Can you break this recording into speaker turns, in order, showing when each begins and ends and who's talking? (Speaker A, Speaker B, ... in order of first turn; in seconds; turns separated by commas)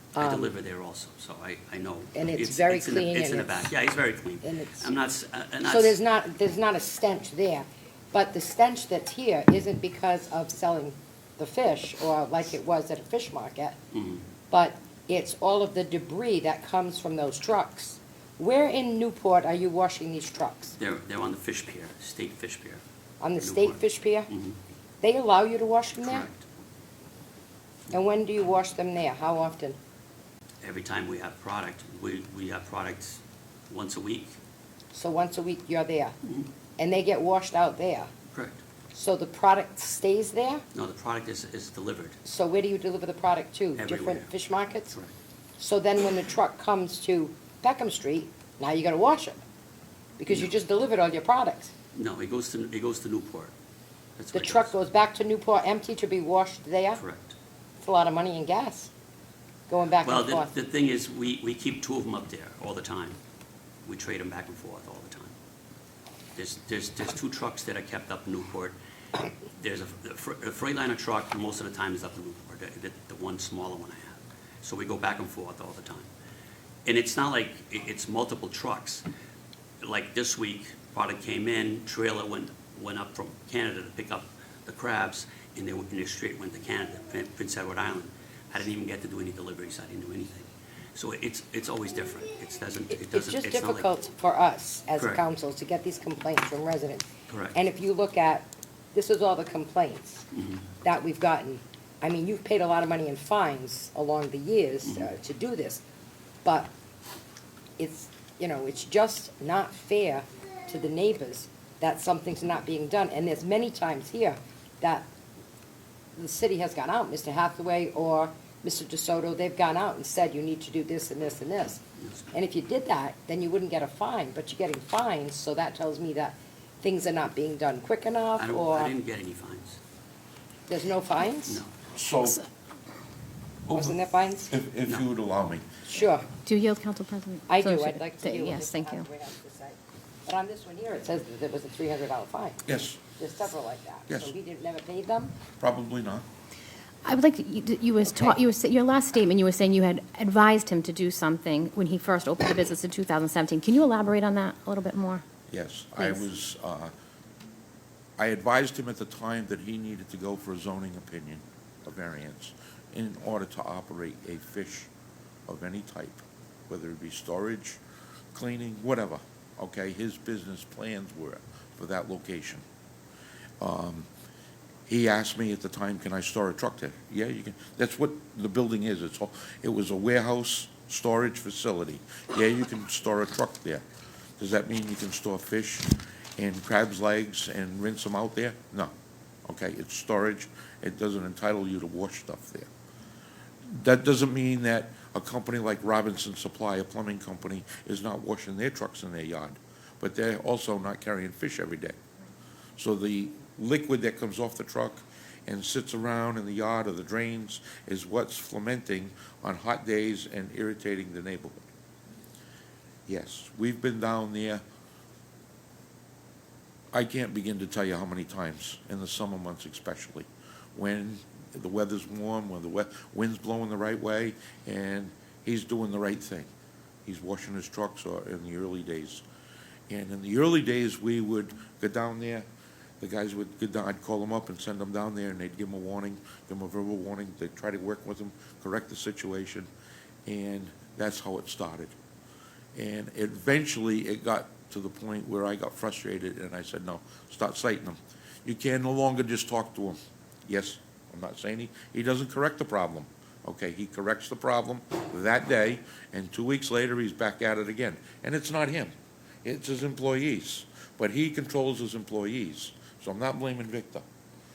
Speaker A: 0.1-0.5, Speaker B: 0.1-6.0, Speaker A: 2.1-3.7, Speaker A: 4.4-4.9, Speaker A: 5.6-13.8, Speaker B: 13.9-14.2, Speaker A: 14.5-20.7, Speaker B: 20.8-22.8, Speaker A: 23.2-24.3, Speaker B: 23.4-24.6, Speaker A: 25.0-26.3, Speaker B: 26.0-26.4, Speaker A: 27.9-29.8, Speaker B: 30.6-34.4, Speaker A: 34.9-36.1, Speaker A: 36.8-38.1, Speaker B: 38.3-38.6, Speaker A: 38.9-40.6, Speaker B: 40.7-42.2, Speaker A: 42.2-45.0, Speaker B: 43.8-44.3, Speaker A: 45.6-49.4, Speaker A: 50.2-51.7, Speaker B: 51.9-53.5, Speaker B: 54.2-54.7, Speaker A: 54.3-57.0, Speaker B: 57.0-57.3, Speaker A: 57.8-58.9, Speaker A: 59.7-60.5, Speaker B: 60.0-63.2, Speaker B: 63.8-65.3, Speaker B: 66.3-68.8, Speaker B: 69.6-76.1, Speaker B: 76.8-79.0, Speaker B: 79.8-93.9, Speaker A: 93.0-100.2, Speaker B: 97.3-97.5, Speaker B: 100.3-100.6, Speaker A: 100.8-105.8, Speaker A: 106.4-106.7, Speaker A: 107.8-115.0, Speaker A: 116.2-128.9, Speaker B: 122.0-122.3, Speaker B: 128.4-129.8, Speaker A: 130.7-131.6, Speaker B: 131.5-131.7, Speaker C: 131.9-132.4, Speaker C: 133.7-135.7, Speaker A: 133.7-134.5, Speaker A: 135.8-136.3, Speaker D: 136.4-139.1, Speaker A: 137.5-142.6, Speaker C: 142.6-143.0, Speaker A: 143.2-145.3, Speaker C: 145.6-146.2, Speaker D: 147.0-155.2, Speaker C: 155.5-156.9, Speaker C: 158.2-164.9, Speaker C: 165.5-167.8, Speaker C: 168.3-172.6, Speaker C: 173.6-174.1, Speaker C: 174.9-183.8, Speaker C: 184.4-188.9, Speaker C: 189.5-192.7, Speaker C: 193.7-201.9, Speaker C: 202.8-211.6, Speaker C: 213.1-214.6, Speaker C: 216.9-226.5, Speaker C: 227.1-229.2, Speaker C: 229.9-232.4, Speaker C: 233.0-239.7, Speaker C: 240.2-241.9, Speaker C: 242.7-258.9, Speaker C: 259.4-264.0